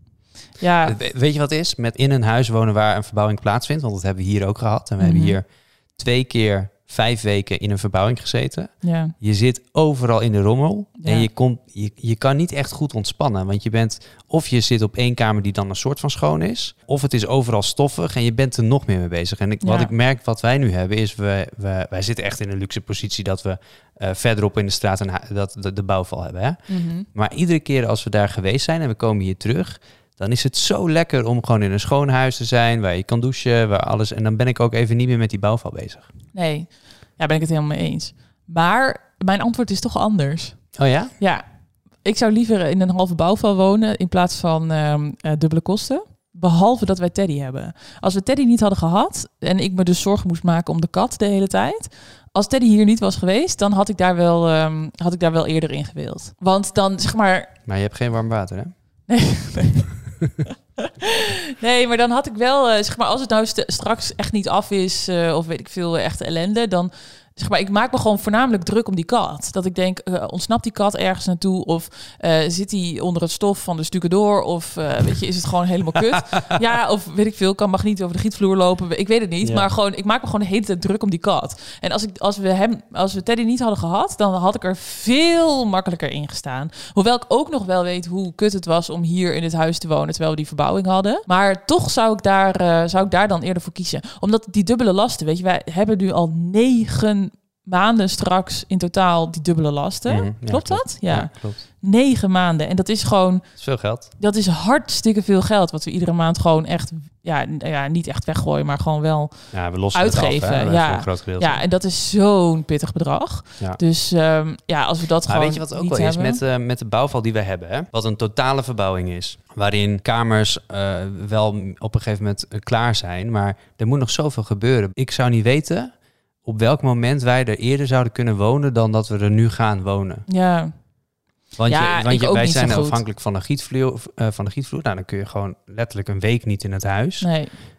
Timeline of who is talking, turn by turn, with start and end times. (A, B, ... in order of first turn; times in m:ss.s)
0:00.6-0:01.0 A
0:00.8-0:36.1 B
0:05.0-0:05.4 A
0:08.8-0:09.1 A
0:11.0-0:11.3 A
0:19.6-0:19.9 A
0:26.7-0:27.1 A
0:36.3-0:40.6 A
0:40.8-0:41.1 B
0:41.2-0:41.4 A
0:42.0-0:57.5 A
0:57.6-0:58.7 B
0:59.1-0:59.9 A
1:00.5-1:43.4 A
1:16.1-1:16.6 B
1:19.4-1:19.7 B
1:40.1-1:41.6 B
1:43.6-1:44.1 B
1:44.2-1:56.4 A
1:49.5-1:51.6 B
1:55.3-2:05.9 B
2:06.4-2:10.2 B
2:10.3-2:10.7 A
2:11.6-2:17.3 B
2:11.7-2:13.0 A
2:17.2-2:17.5 A